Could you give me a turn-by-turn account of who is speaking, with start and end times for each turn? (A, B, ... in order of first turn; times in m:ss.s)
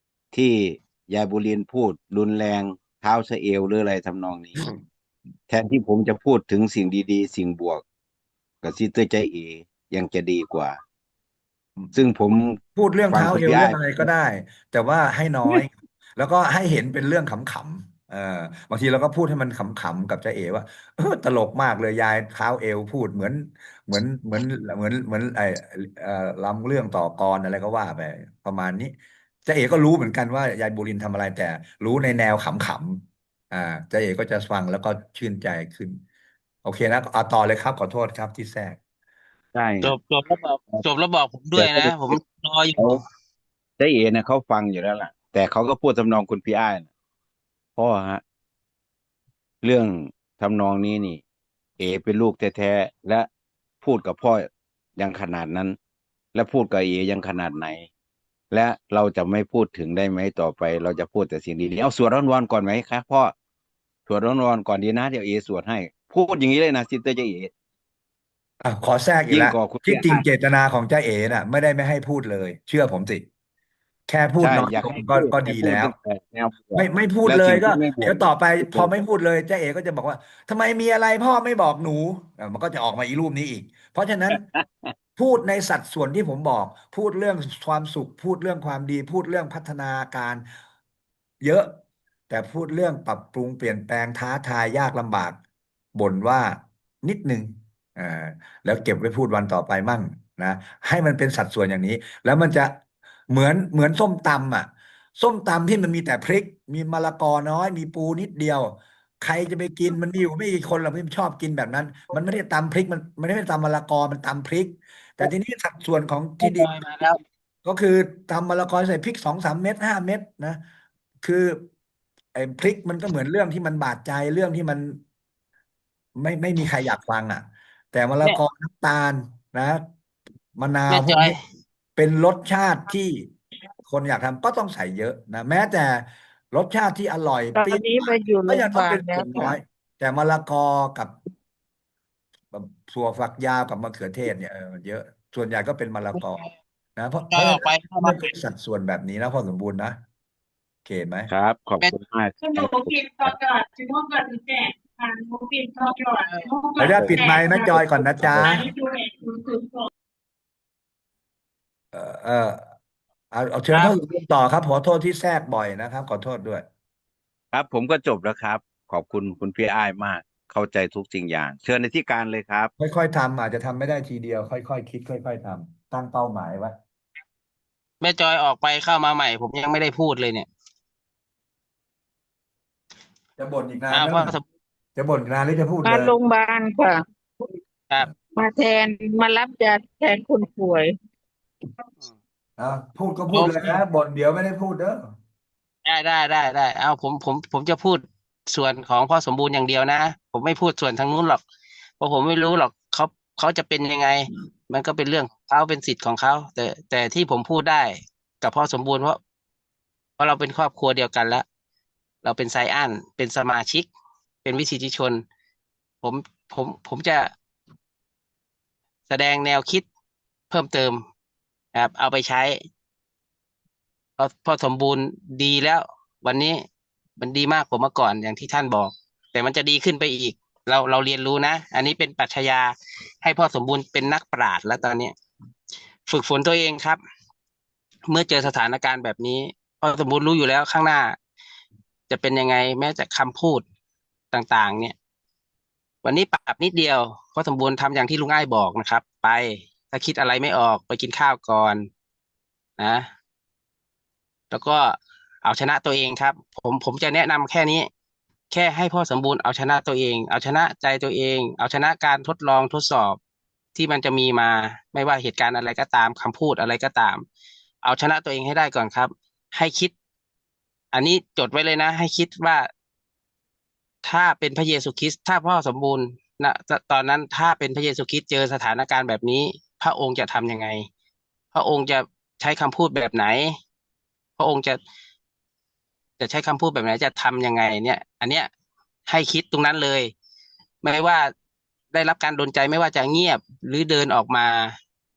0:00.3-0:04.6 A
0:05.5-0:07.8 A
0:08.6-0:10.8 A
0:11.9-0:14.1 A
0:12.8-0:28.9 B
0:29.4-0:36.0 B
0:36.6-0:38.8 B
0:39.5-0:40.0 A
0:39.8-0:43.0 C
0:41.6-0:42.2 A
0:43.8-0:46.9 A
0:47.8-0:48.2 A
0:49.6-0:51.2 A
0:51.8-0:53.3 A
0:53.8-0:55.8 A
0:56.3-0:57.9 A
0:58.5-1:03.3 A
1:04.1-1:07.5 A
1:08.6-1:13.3 B
1:09.3-1:10.2 A
1:14.1-1:15.9 B
1:14.4-1:18.9 A
1:16.8-1:24.4 B
1:24.4-1:24.6 A
1:25.2-1:30.4 B
1:31.4-1:35.4 B
1:36.0-1:42.8 B
1:43.3-1:56.7 B
1:56.4-1:57.2 C
1:57.6-2:00.6 B
2:01.2-2:01.7 B
2:02.4-2:05.0 B
2:06.2-2:09.8 B
2:10.6-2:11.4 B
2:10.9-2:11.4 C
2:12.0-2:21.2 B
2:17.6-2:19.6 D
2:22.5-2:26.4 B
2:26.1-2:26.5 C
2:27.0-2:30.0 B
2:27.3-2:28.2 C
2:30.8-2:31.3 B
2:31.3-2:33.3 A
2:32.4-2:39.9 E
2:36.2-2:36.5 C
2:36.8-2:38.7 B
2:36.8-2:38.6 A
2:41.9-2:42.7 B
2:43.3-2:46.7 B
2:47.5-2:52.7 A
2:52.8-2:56.8 B
2:58.0-3:00.5 C
3:03.4-3:04.4 B
3:03.9-3:04.4 C
3:05.0-3:06.1 B
3:05.8-3:07.0 D
3:08.4-3:10.9 D
3:12.6-3:15.1 B
3:13.3-3:13.8 C
3:15.8-3:21.4 C
3:22.0-3:29.2 C
3:30.2-3:31.4 C
3:32.2-3:33.9 C
3:34.4-3:35.2 C
3:36.0-3:37.3 C
3:39.1-3:39.8 C
3:40.5-3:41.0 C
3:41.7-3:42.6 C
3:44.2-3:46.6 C
3:47.2-3:55.1 C
3:56.1-3:57.0 C
3:58.1-4:01.2 C
4:02.1-4:03.6 C
4:04.3-4:05.0 C
4:06.0-4:11.9 C
4:12.8-4:13.1 C
4:14.5-4:17.9 C
4:18.5-4:23.2 C
4:23.8-4:27.2 C
4:27.8-4:29.9 C
4:30.9-4:32.7 C
4:34.0-4:40.9 C
4:41.5-4:43.6 C
4:44.4-4:44.8 C
4:46.2-4:48.5 C
4:49.1-4:50.1 C
4:50.8-4:51.3 C
4:51.9-4:54.8 C